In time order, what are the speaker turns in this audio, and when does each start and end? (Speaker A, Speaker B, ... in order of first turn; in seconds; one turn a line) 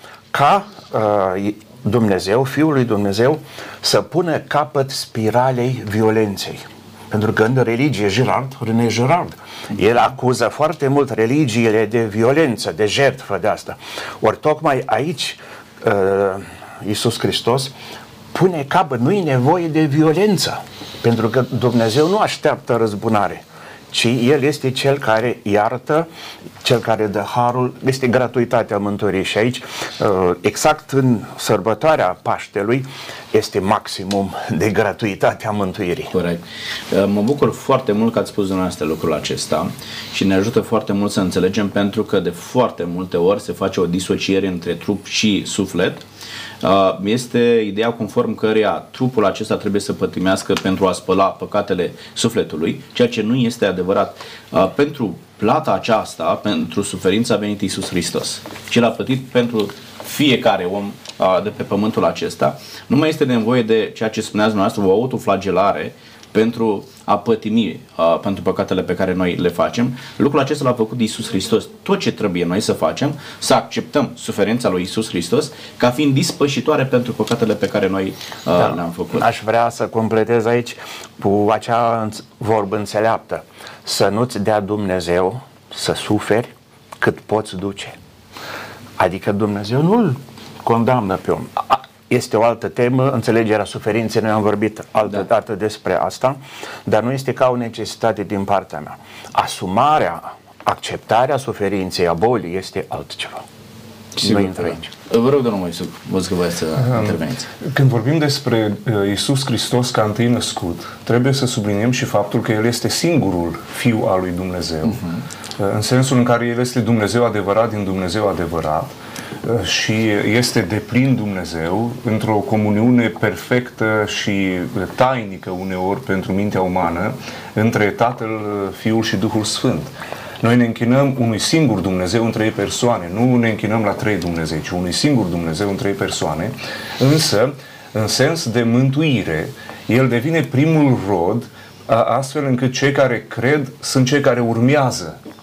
Speaker A: 0.3-17.7
Speaker A: 18.3-26.1
Speaker A: 26.6-36.1
Speaker B: 36.1-46.0
Speaker B: 46.6-79.3
Speaker A: 78.6-88.0
Speaker A: 89.0-103.4
Speaker B: 104.2-107.5
Speaker A: 104.2-104.9
Speaker C: 106.8-115.0
Speaker B: 114.8-115.2
Speaker C: 115.6-145.2